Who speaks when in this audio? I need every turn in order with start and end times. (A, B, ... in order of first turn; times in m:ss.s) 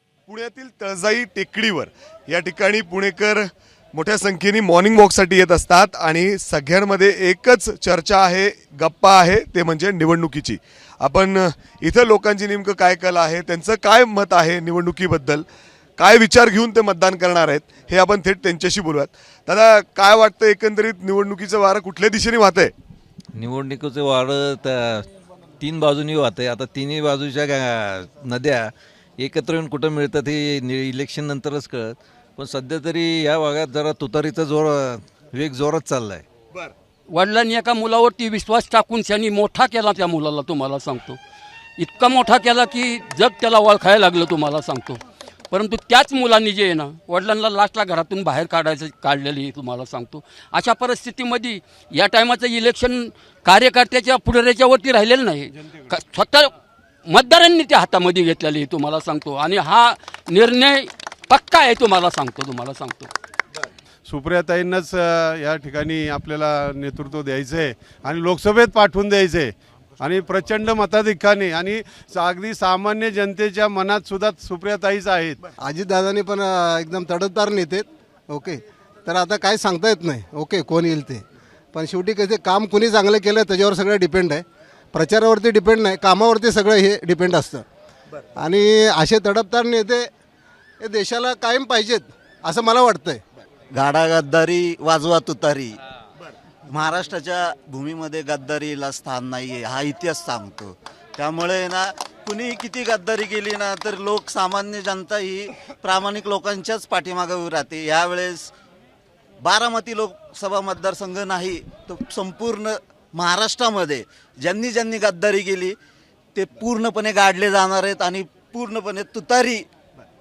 0:00.3-0:15.4 A
0:16.0-0:22.7 A
0:23.4-0:25.1 B
0:25.6-0:36.2 B
0:37.1-0:41.2 C
0:41.8-0:45.0 C
0:45.5-0:56.5 C
0:57.1-1:03.1 C
1:04.0-1:15.4 D
1:15.6-1:21.2 E
1:21.7-1:27.6 E
1:28.4-1:30.1 E
1:30.8-1:33.2 E
1:33.7-1:35.8 F
1:36.7-1:48.5 F
1:49.4-1:55.7 F
1:56.3-1:59.6 F